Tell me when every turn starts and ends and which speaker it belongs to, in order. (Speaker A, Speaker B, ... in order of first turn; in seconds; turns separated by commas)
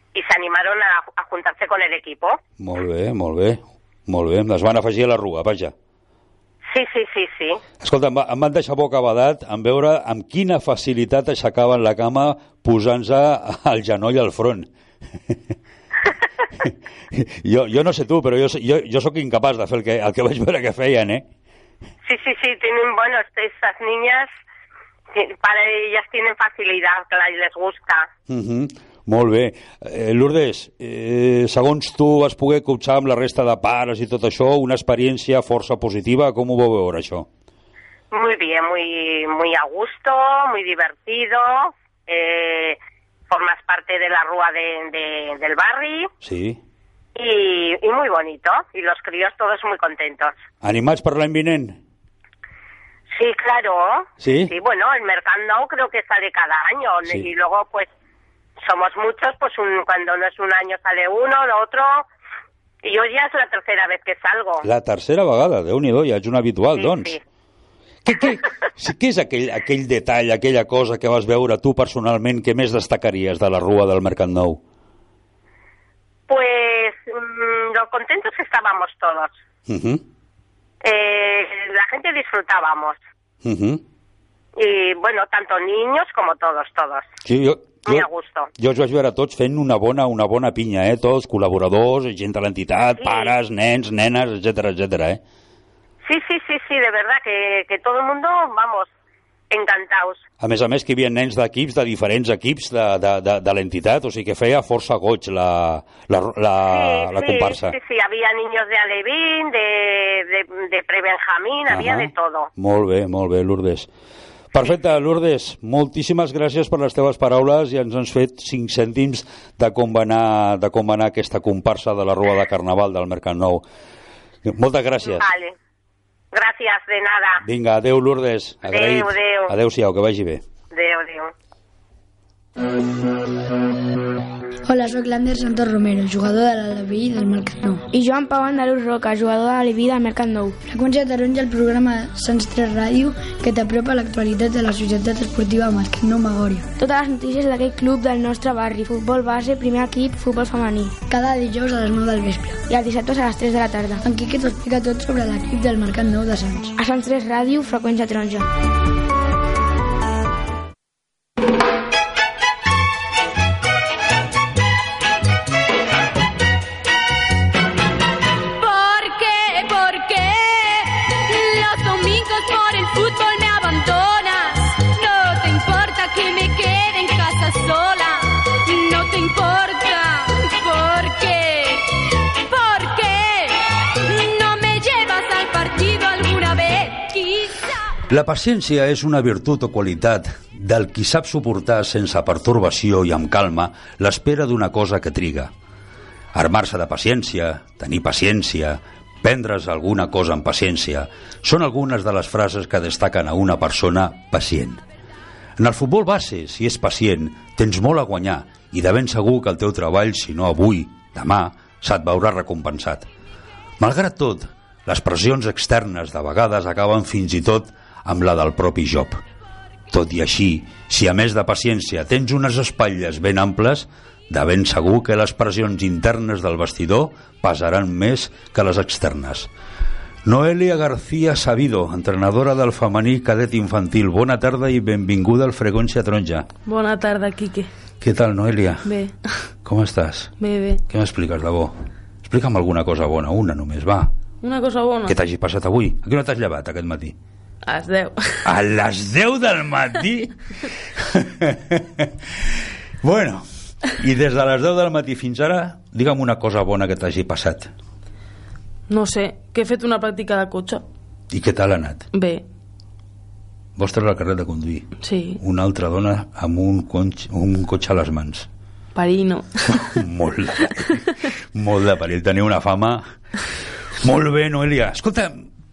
Speaker A: 0.1-2.4, Speaker B: 2.6-5.7, Speaker A: 6.7-7.6, Speaker B: 7.8-14.7, Speaker B: 16.6-21.3, Speaker A: 22.1-24.3, Speaker A: 25.1-28.1, Speaker B: 28.3-37.3, Speaker A: 38.1-42.8, Speaker A: 43.3-46.1, Speaker B: 46.2-46.6, Speaker A: 47.1-50.3, Speaker B: 50.6-51.8, Speaker A: 53.1-57.9, Speaker B: 54.2-54.5, Speaker A: 58.6-62.1, Speaker A: 62.8-64.7, Speaker B: 64.6-67.2, Speaker A: 66.8-67.2, Speaker B: 68.0-74.6, Speaker A: 76.3-79.3, Speaker B: 79.7-80.0, Speaker A: 80.8-83.0, Speaker B: 83.4-83.8, Speaker A: 84.6-87.1, Speaker B: 87.2-88.1, Speaker A: 87.8-88.5, Speaker B: 88.6-95.2, Speaker A: 93.0-93.3, Speaker A: 96.0-98.9, Speaker A: 99.5-100.2, Speaker B: 100.4-107.8, Speaker A: 106.7-112.5, Speaker B: 111.7-113.9, Speaker B: 114.5-123.7, Speaker B: 124.4-125.3, Speaker A: 125.2-125.5, Speaker A: 126.3-127.4, Speaker B: 127.4-130.4, Speaker A: 128.7-129.5, Speaker A: 130.7-131.3, Speaker C: 134.7-137.8, Speaker D: 137.9-140.6, Speaker C: 140.7-146.7, Speaker D: 146.8-151.0, Speaker C: 151.1-152.6, Speaker D: 152.7-154.0, Speaker C: 154.0-156.8, Speaker D: 156.8-158.5, Speaker E: 168.6-187.8, Speaker B: 188.1-195.5, Speaker B: 196.3-204.8, Speaker B: 205.6-213.1, Speaker B: 213.8-219.2, Speaker B: 219.9-229.5, Speaker B: 230.2-236.5, Speaker F: 236.7-237.7, Speaker B: 238.0-238.9, Speaker F: 238.8-239.2, Speaker B: 239.6-240.4, Speaker F: 240.4-240.8, Speaker B: 240.9-244.1, Speaker F: 244.4-245.2, Speaker B: 245.1-247.2, Speaker F: 247.7-248.5, Speaker B: 248.4-257.7, Speaker F: 258.9-260.8, Speaker B: 261.3-262.1, Speaker F: 262.1-262.4, Speaker B: 263.8-268.5, Speaker F: 265.0-265.4, Speaker F: 268.9-270.0, Speaker B: 269.7-271.0, Speaker B: 271.5-273.1, Speaker B: 274.0-275.5